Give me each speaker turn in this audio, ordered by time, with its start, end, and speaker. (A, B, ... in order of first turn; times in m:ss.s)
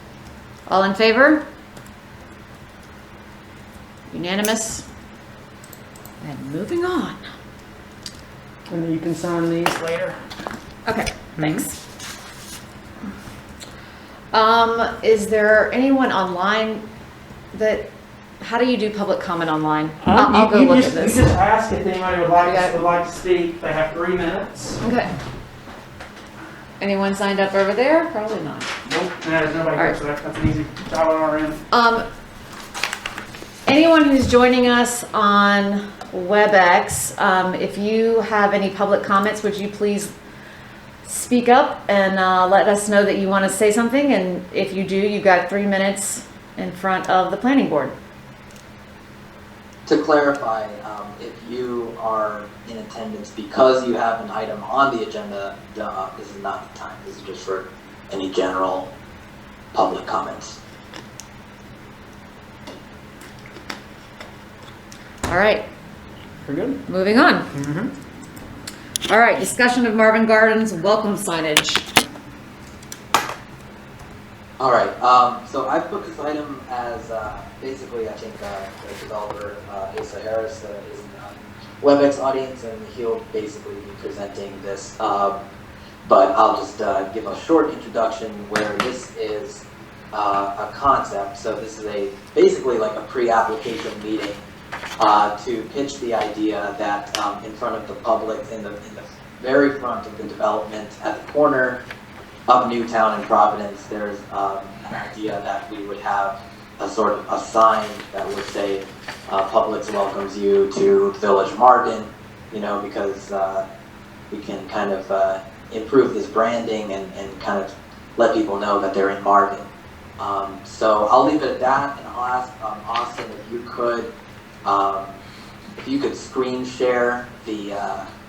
0:00.7-0:01.4 A
0:04.1-0:04.9 A
0:06.2-0:07.2 A
0:08.7-0:10.2 B
0:10.8-0:11.8 A
0:11.4-0:11.6 B
0:14.3-0:16.8 A
0:17.5-0:17.9 A
0:18.4-0:21.2 A
0:20.0-0:24.8 B
0:22.4-0:22.8 A
0:24.8-0:25.1 A
0:26.8-0:28.7 A
0:28.8-0:31.6 B
0:31.7-0:32.0 A
0:33.6-0:40.1 A
0:41.0-0:47.9 A
0:49.8-0:58.9 C
0:59.7-1:00.6 C
1:05.3-1:05.6 A
1:06.4-1:06.8 B
1:06.9-1:07.5 A
1:07.5-1:07.9 B
1:09.1-1:11.8 A
1:14.6-1:25.4 C
1:26.0-1:34.4 C
1:35.0-1:41.8 C
1:42.5-1:53.6 C
1:54.3-1:59.7 C
2:00.2-2:04.1 C
2:04.6-2:05.2 C
2:05.8-2:08.1 C